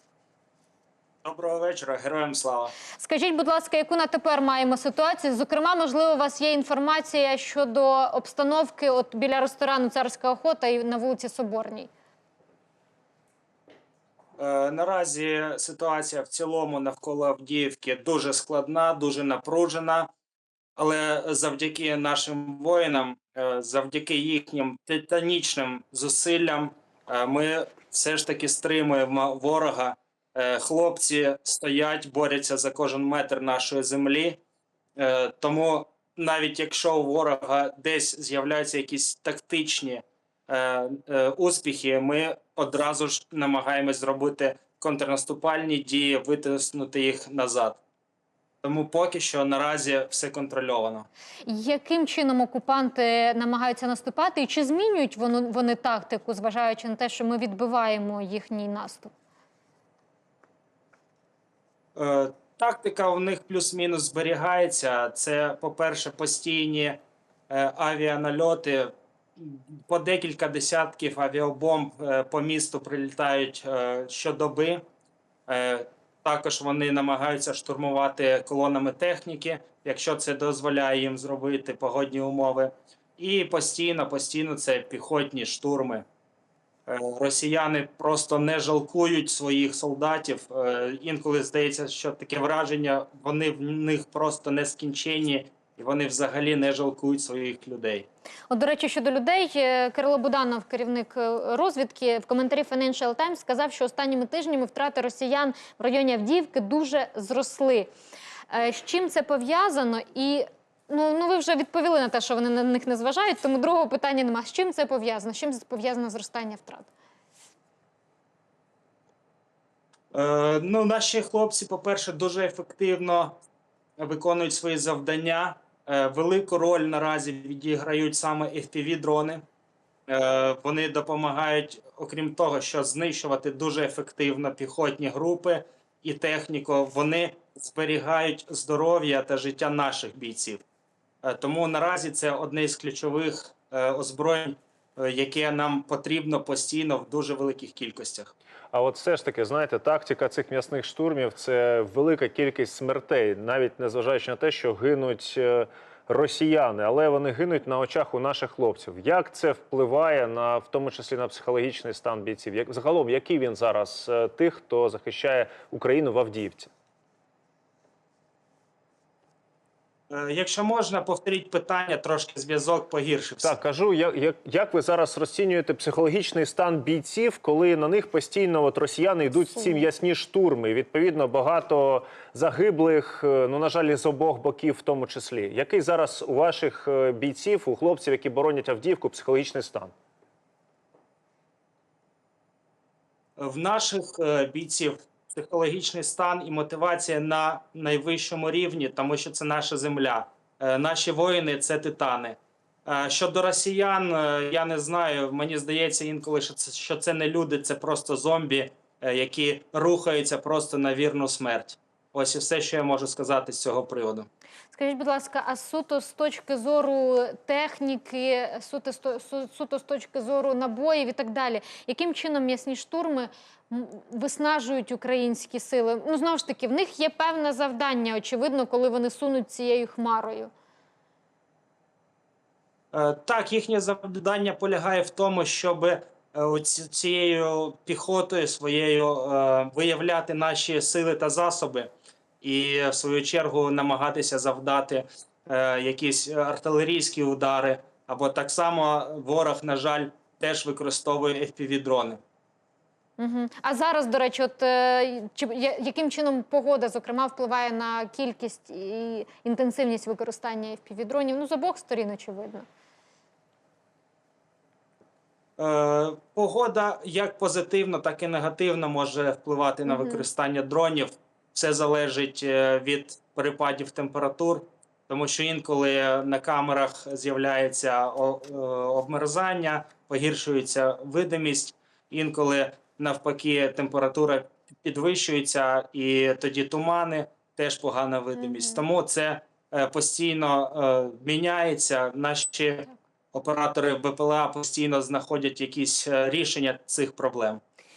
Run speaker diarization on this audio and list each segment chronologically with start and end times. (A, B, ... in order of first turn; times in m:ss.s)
0:01.2-0:02.8 A
0:02.9-0:11.9 B
0:14.4-0:20.1 A
0:20.8-0:34.4 A
0:35.0-0:47.8 A
0:48.6-0:51.1 A
0:51.4-0:59.1 B
1:02.0-1:14.8 A
1:15.5-1:26.0 A
1:26.9-1:38.1 A
1:38.5-1:47.9 B
1:48.5-1:56.9 B
2:00.1-2:03.4 A
2:04.0-2:09.4 A
2:10.1-2:20.6 A
2:21.2-2:28.3 A
2:28.7-2:46.7 C
2:50.1-2:53.5 A
2:53.4-3:09.9 C
3:13.4-3:34.3 A
3:34.7-3:50.5 B
3:52.9-4:01.9 A
4:02.4-4:12.2 A
4:13.2-4:22.6 B
4:25.6-4:57.6 A
4:29.9-4:30.2 B